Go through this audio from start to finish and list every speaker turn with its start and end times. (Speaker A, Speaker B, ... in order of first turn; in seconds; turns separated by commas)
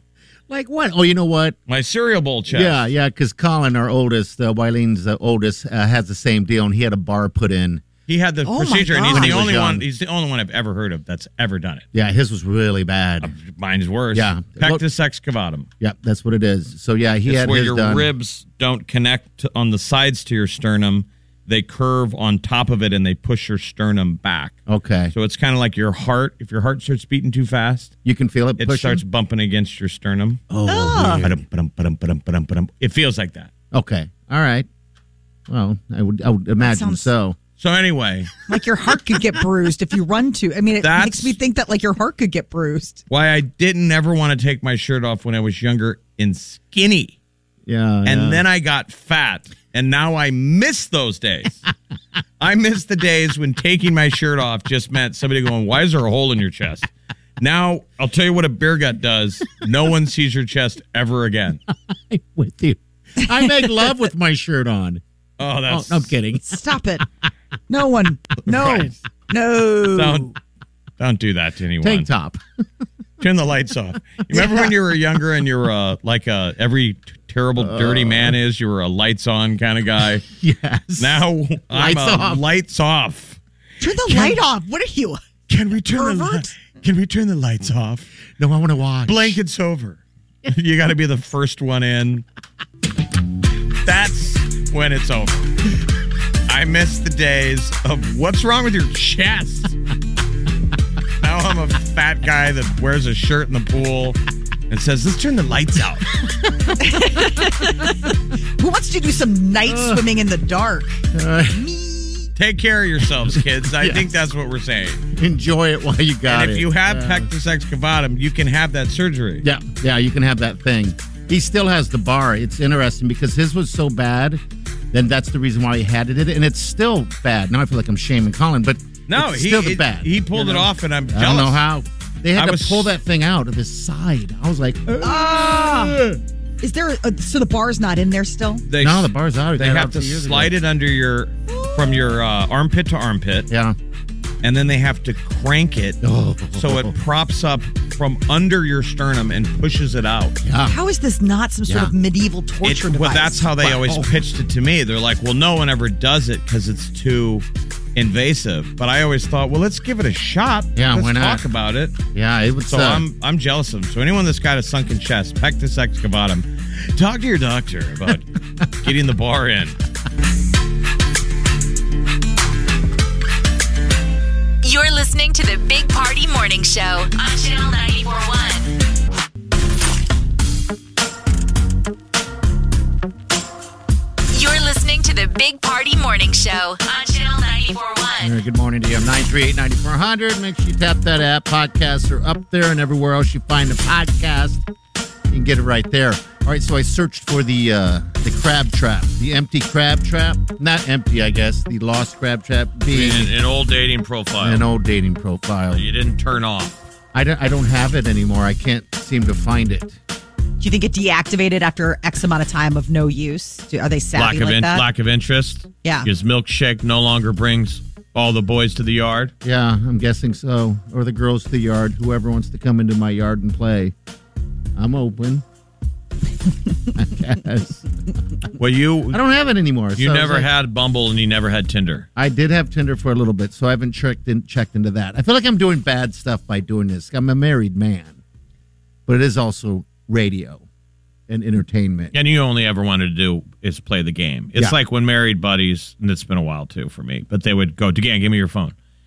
Speaker A: 0.5-1.6, Speaker B: 1.7-2.9, Speaker A: 2.5-7.8, Speaker B: 8.1-11.8, Speaker C: 8.4-9.5, Speaker A: 9.1-9.8, Speaker A: 11.9-13.3, Speaker B: 13.2-15.7, Speaker A: 14.1-14.8, Speaker A: 15.8-18.1, Speaker B: 17.3-24.6, Speaker A: 24.7-25.1, Speaker B: 25.1-27.9, Speaker A: 28.1-29.0, Speaker B: 28.6-30.4, Speaker A: 30.5-31.4, Speaker C: 30.7-31.2, Speaker B: 31.2-33.5, Speaker A: 33.7-34.7, Speaker A: 35.5-37.4, Speaker C: 36.6-37.1, Speaker B: 37.6-38.3, Speaker C: 38.5-43.0, Speaker B: 40.8-41.4, Speaker B: 43.1-47.2, Speaker A: 47.7-48.4, Speaker B: 48.0-51.6, Speaker B: 52.4-61.6, Speaker A: 61.7-65.0, Speaker B: 65.4-66.2, Speaker A: 65.7-66.6, Speaker C: 66.5-67.0, Speaker C: 67.7-70.3, Speaker B: 68.5-68.9, Speaker B: 69.9-70.3, Speaker B: 71.0-72.1, Speaker A: 71.8-72.4, Speaker B: 73.2-80.2, Speaker A: 74.3-74.7, Speaker A: 77.6-78.3, Speaker A: 80.3-82.4, Speaker B: 81.0-83.4, Speaker C: 83.8-85.2, Speaker B: 85.5-88.1, Speaker C: 85.9-86.5, Speaker A: 88.4-89.4, Speaker B: 89.1-92.2, Speaker B: 93.8-95.4, Speaker B: 96.5-99.7, Speaker B: 101.2-104.2, Speaker B: 104.7-106.2, Speaker C: 106.8-112.3, Speaker A: 109.7-110.0, Speaker A: 111.1-111.6, Speaker B: 112.4-115.0, Speaker A: 113.7-114.1, Speaker A: 115.2-117.3, Speaker B: 116.3-119.4, Speaker A: 119.4-124.4, Speaker A: 124.9-134.8, Speaker B: 129.1-131.6, Speaker B: 132.3-132.9, Speaker C: 135.0-136.0, Speaker B: 135.5-136.2, Speaker C: 136.6-138.6, Speaker B: 138.7-143.5, Speaker A: 138.8-140.5, Speaker A: 143.5-143.8, Speaker B: 144.4-146.0, Speaker A: 146.0-146.9, Speaker B: 146.5-150.4, Speaker A: 150.4-150.8, Speaker C: 150.7-154.1, Speaker A: 151.7-151.9, Speaker B: 152.6-157.4, Speaker B: 158.0-162.0, Speaker A: 160.8-161.4, Speaker A: 162.1-163.1, Speaker B: 162.7-168.3, Speaker B: 168.8-169.8, Speaker D: 174.6-178.7, Speaker D: 184.3-188.3, Speaker A: 188.2-194.7, Speaker A: 195.3-203.3, Speaker B: 202.9-204.7, Speaker A: 204.4-205.8, Speaker B: 205.7-206.8, Speaker A: 207.1-210.0, Speaker C: 210.6-214.8, Speaker B: 214.2-219.3, Speaker C: 215.8-216.1, Speaker A: 219.4-223.9, Speaker A: 224.8-225.4, Speaker A: 226.9-227.9, Speaker B: 228.6-229.2, Speaker A: 229.1-230.5, Speaker B: 230.0-232.1, Speaker A: 232.2-238.2, Speaker A: 239.1-240.7, Speaker A: 241.3-242.1, Speaker B: 242.1-248.8